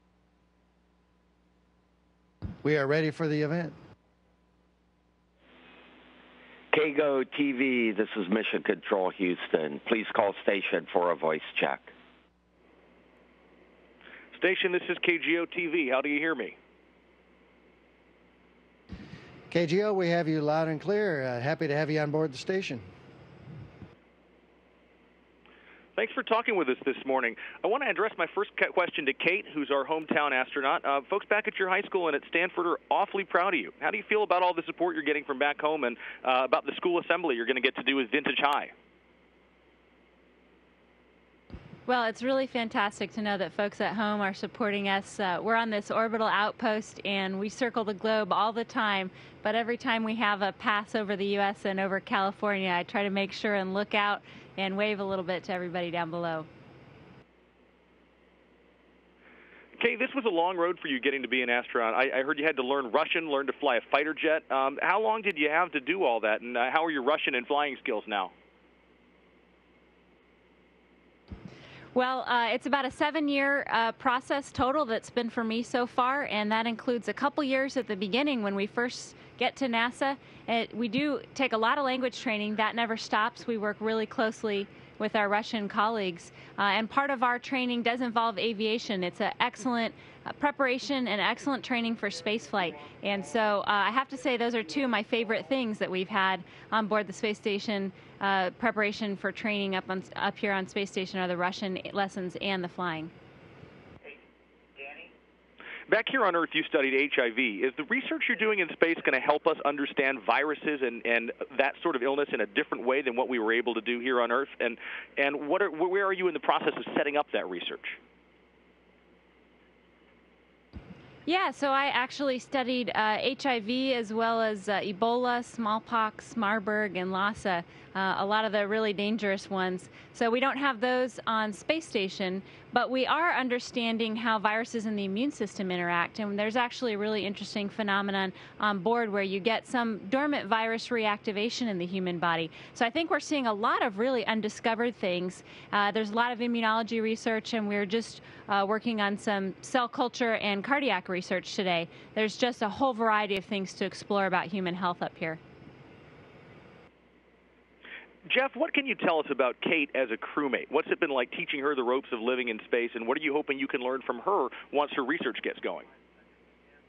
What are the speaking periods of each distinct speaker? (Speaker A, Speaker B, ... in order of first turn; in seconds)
Speaker A: 2.6-3.7, 19.5-22.8
Speaker B: 6.7-11.9
Speaker C: 14.3-16.5, 25.9-38.7, 59.8-68.3, 105.9-118.0, 158.2-165.9
Speaker D: 41.9-56.5, 71.9-103.1, 121.2-155.4